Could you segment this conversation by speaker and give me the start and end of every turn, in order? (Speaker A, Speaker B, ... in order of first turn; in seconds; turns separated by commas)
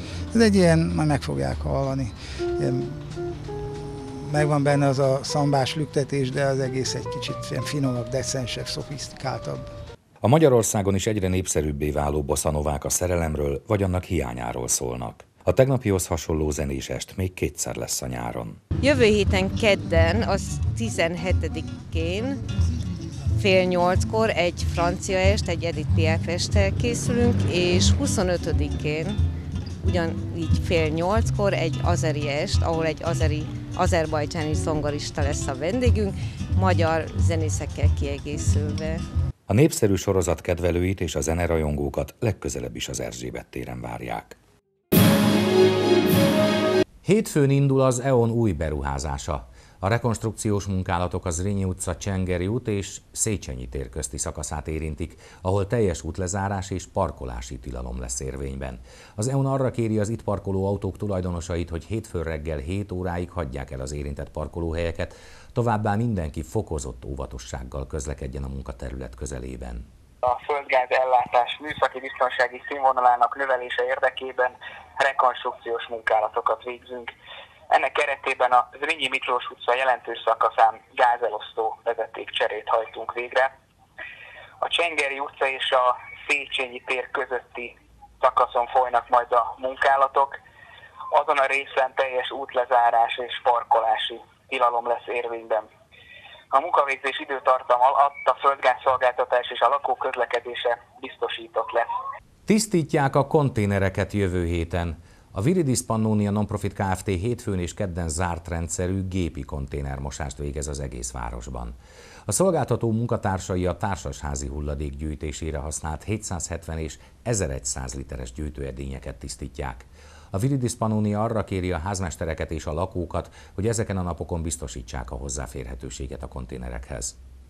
Speaker A: 0.3-3.0, Speaker A: 4.3-9.6, Speaker B: 10.2-18.6, Speaker C: 18.8-22.4, Speaker C: 23.4-29.2, Speaker C: 29.8-39.0, Speaker B: 39.5-44.4, Speaker B: 47.0-69.9, Speaker D: 70.2-77.1, Speaker D: 77.7-83.5, Speaker D: 84.6-90.4, Speaker D: 91.1-95.7, Speaker D: 96.5-101.9, Speaker B: 102.5-111.8, Speaker B: 112.3-127.2